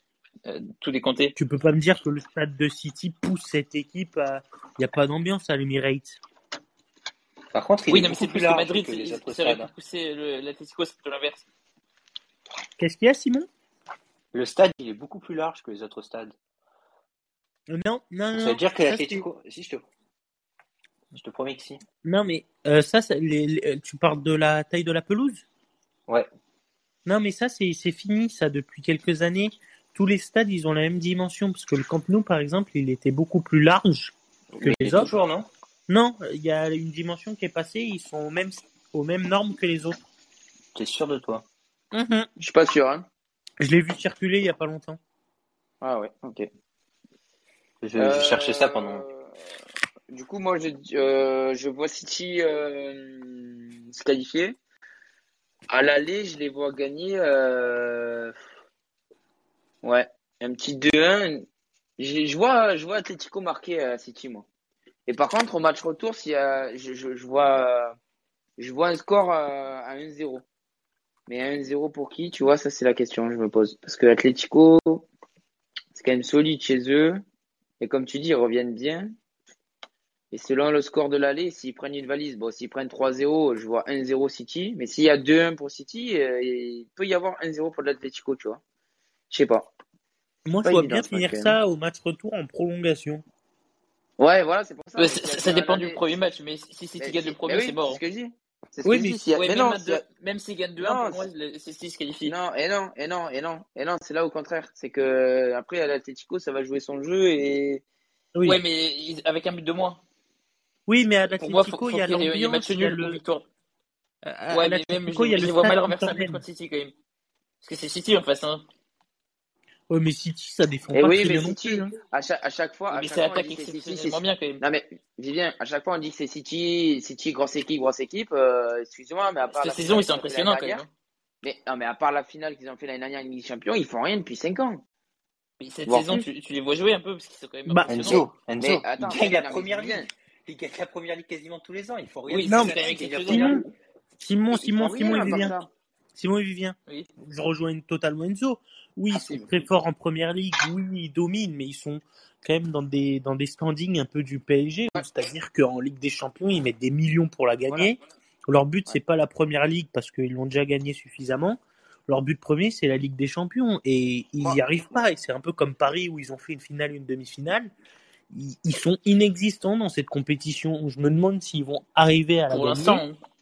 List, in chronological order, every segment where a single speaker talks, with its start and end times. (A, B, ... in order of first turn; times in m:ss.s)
0:00.4-0:01.3 A
0:01.4-0:06.2 B
0:07.5-0:09.7 C
0:07.9-0:11.4 A
0:12.8-0:13.5 B
0:14.3-0:16.3 C
0:17.7-0:19.2 B
0:18.3-0:19.8 C
0:21.1-0:21.8 C
0:22.0-0:25.4 B
0:27.0-0:35.1 B
0:34.5-0:35.5 C
0:35.9-0:40.0 B
0:40.7-0:41.4 C
0:41.9-0:42.3 B
0:42.4-0:43.0 D
0:43.6-0:45.0 B
0:45.8-0:46.5 D
0:47.8-0:49.0 C
0:48.0-0:49.3 D
0:50.1-0:54.6 D
0:55.7-0:58.3 D
0:59.8-1:01.4 D
1:02.0-1:04.4 D
1:05.1-1:08.0 D
1:08.6-1:10.4 D
1:11.3-1:15.0 D
1:15.9-1:17.2 D
1:17.8-1:19.1 D
1:20.3-1:28.6 D
1:29.3-1:29.7 D
1:30.4-1:33.2 B
1:30.6-1:31.5 D
1:34.2-1:36.0 D
1:35.0-1:38.0 A
1:37.0-1:40.0 D
1:38.8-1:39.2 B
1:39.3-1:42.3 A
1:40.8-1:41.3 D
1:42.2-1:47.8 D
1:48.3-1:48.6 B
1:48.4-1:50.0 A
1:50.9-1:53.2 B
1:51.3-1:53.4 A
1:54.2-1:56.4 B
1:54.5-1:56.9 A
1:57.6-1:58.6 A
1:59.9-2:01.9 B
2:00.9-2:10.8 D
2:02.9-2:04.6 A
2:09.5-2:10.9 A
2:11.4-2:14.8 D
2:15.6-2:18.3 A
2:15.9-2:16.2 D
2:17.7-2:18.3 B
2:17.9-2:23.7 C
2:18.6-2:20.1 D
2:22.3-2:23.6 A
2:22.5-2:23.6 B
2:24.2-2:25.6 B
2:24.5-2:25.7 D
2:26.1-2:47.7 B
2:29.1-2:29.5 D
2:37.7-2:38.0 D
2:48.3-2:53.0 B
2:52.5-2:53.2 A